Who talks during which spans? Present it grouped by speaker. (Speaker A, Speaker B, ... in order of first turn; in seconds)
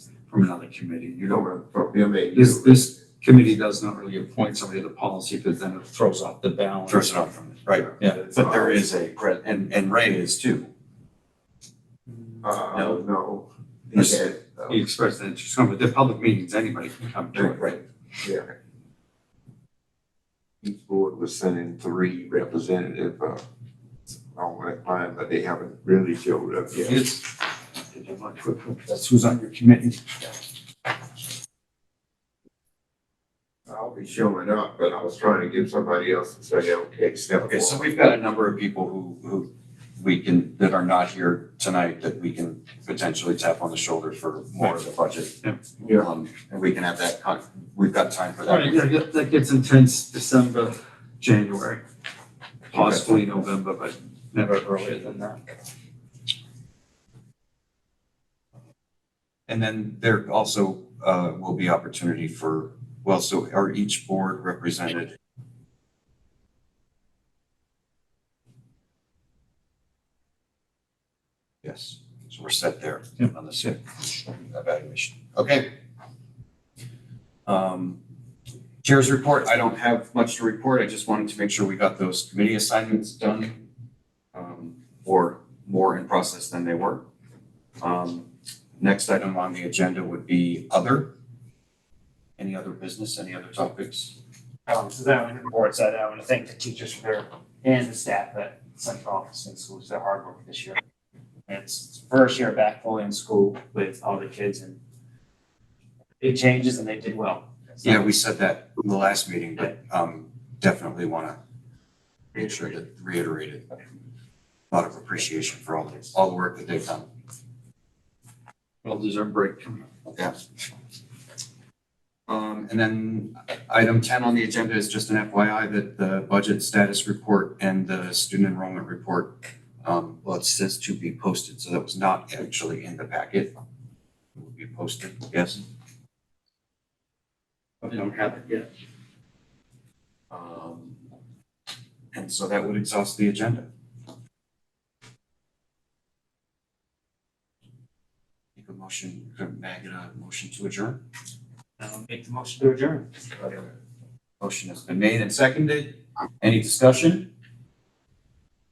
Speaker A: 0.3-1.5, 2.3-7.1, 14.0-17.8, 26.7-27.4, 27.9-30.3, 48.5-51.8, 52.7-55.4, 118.8-119.9, 137.8-138.7
Speaker B: 1.3-2.8, 12.4-14.7, 18.2-18.5, 20.6-23.4, 24.4-27.0, 33.7-37.7
Speaker C: 6.9-10.7, 12.7-13.1, 13.9-14.3, 17.4-17.8, 37.3-48.8, 52.7-53.0, 59.5-65.1, 71.6-75.7, 77.5-78.0, 78.8-83.7, 84.3-87.0, 87.8-88.3, 88.8-91.1, 92.4-94.2, 107.8-111.4, 112.3-113.7, 114.7-117.1, 122.3-133.5, 134.4-135.6, 140.3-141.0, 142.1-143.7, 148.6-151.0, 154.4-157.3
Speaker D: 94.7-100.8, 101.5-104.8, 106.2-108.0, 151.8-153.1